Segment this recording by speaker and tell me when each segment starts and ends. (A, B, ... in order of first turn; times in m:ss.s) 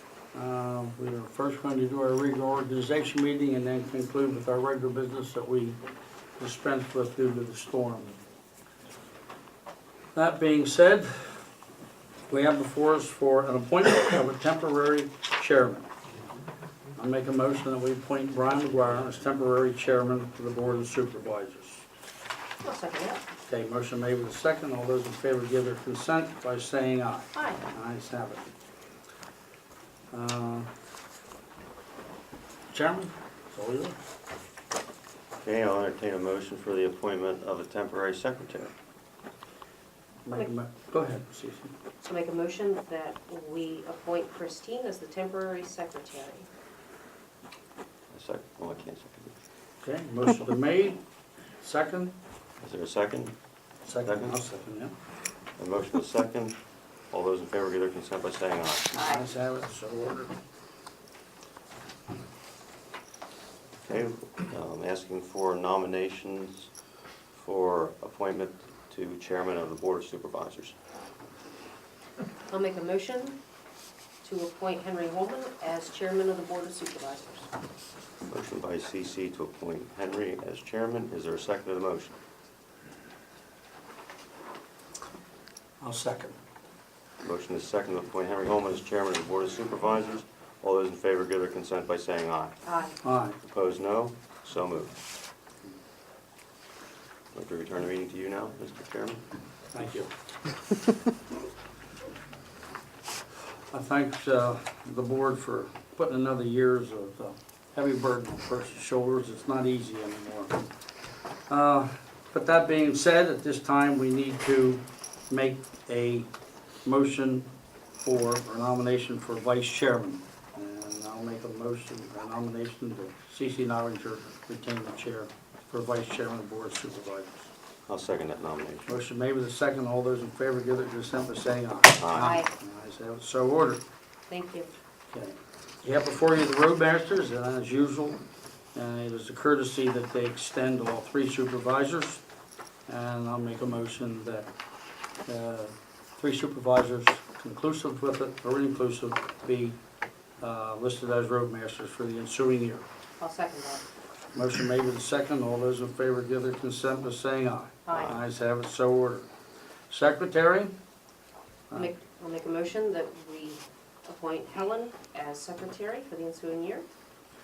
0:00.3-0:05.8 A
0:06.4-0:08.1 A
0:10.2-0:11.5 A
0:12.3-0:15.9 A
0:17.0-0:21.8 A
0:22.6-0:23.2 B
0:23.5-0:28.5 A
0:27.3-0:27.6 B
0:30.1-0:30.7 A
0:32.7-0:34.0 A
0:35.4-0:38.7 C
0:40.2-0:41.8 A
0:42.0-0:46.5 B
0:48.1-0:49.3 C
0:49.8-0:51.0 A
0:51.6-0:52.2 A
0:52.6-0:53.4 C
0:53.8-0:55.0 A
0:54.0-0:54.4 C
0:55.6-0:56.6 C
0:57.1-0:58.9 C
0:58.9-1:00.3 A
1:03.8-1:06.7 C
1:07.3-1:10.8 C
1:12.5-1:13.4 B
1:14.2-1:17.5 B
1:18.3-1:22.2 C
1:25.8-1:26.4 A
1:27.2-1:32.6 C
1:32.7-1:33.0 B
1:33.0-1:33.4 A
1:33.4-1:35.0 C
1:37.3-1:39.2 C
1:39.7-1:40.1 A
1:43.7-1:50.6 A
1:51.5-1:56.3 A
1:56.8-2:07.5 A
2:07.9-2:08.9 C
2:08.9-2:13.8 A
2:12.0-2:12.4 C
2:12.2-2:12.5 B
2:14.3-2:14.7 B
2:15.1-2:18.2 A
2:18.8-2:22.2 A
2:22.9-2:24.5 A
2:25.3-2:29.8 A
2:30.4-2:32.8 A
2:33.2-2:33.9 B
2:34.3-2:39.3 A
2:37.9-2:38.2 B
2:37.9-2:38.2 C
2:39.9-2:40.7 A
2:41.7-2:46.9 B